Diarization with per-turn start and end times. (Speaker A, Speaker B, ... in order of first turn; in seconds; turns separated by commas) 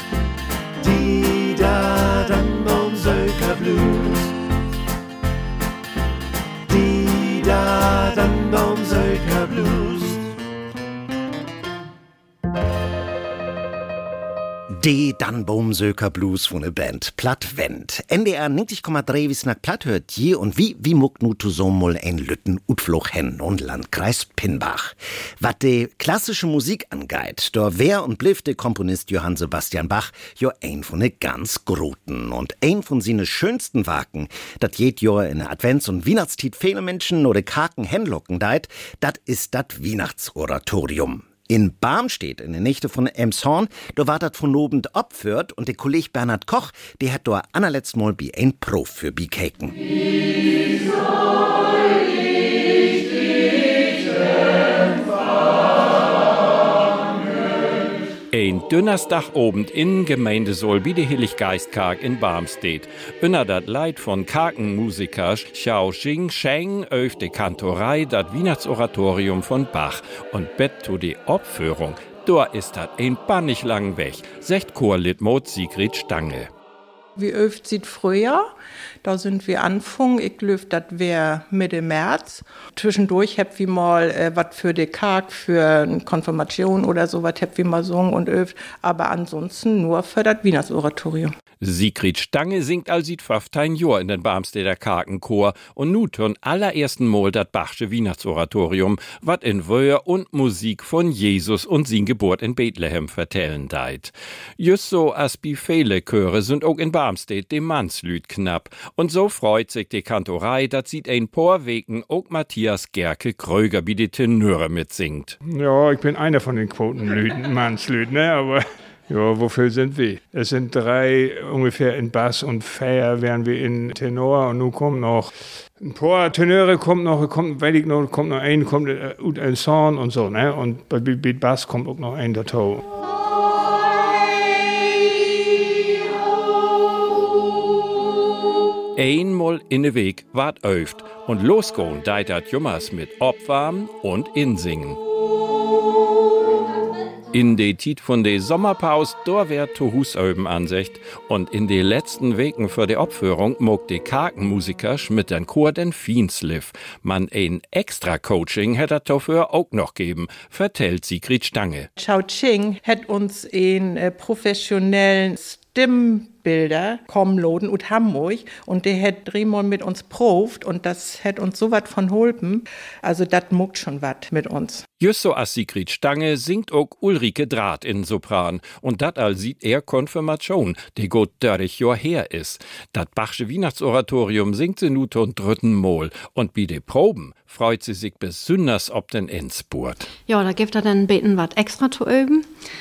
Speaker A: 0.8-4.3, Speaker A: 6.7-10.3, Speaker B: 14.7-49.8, Speaker C: 58.3-76.5, Speaker D: 77.2-78.5, Speaker D: 79.0-91.3, Speaker C: 91.6-115.4, Speaker E: 115.4-132.8, Speaker C: 138.9-145.0, Speaker C: 147.3-161.9, Speaker D: 162.0-174.8, Speaker C: 175.0-190.1, Speaker F: 190.2-192.5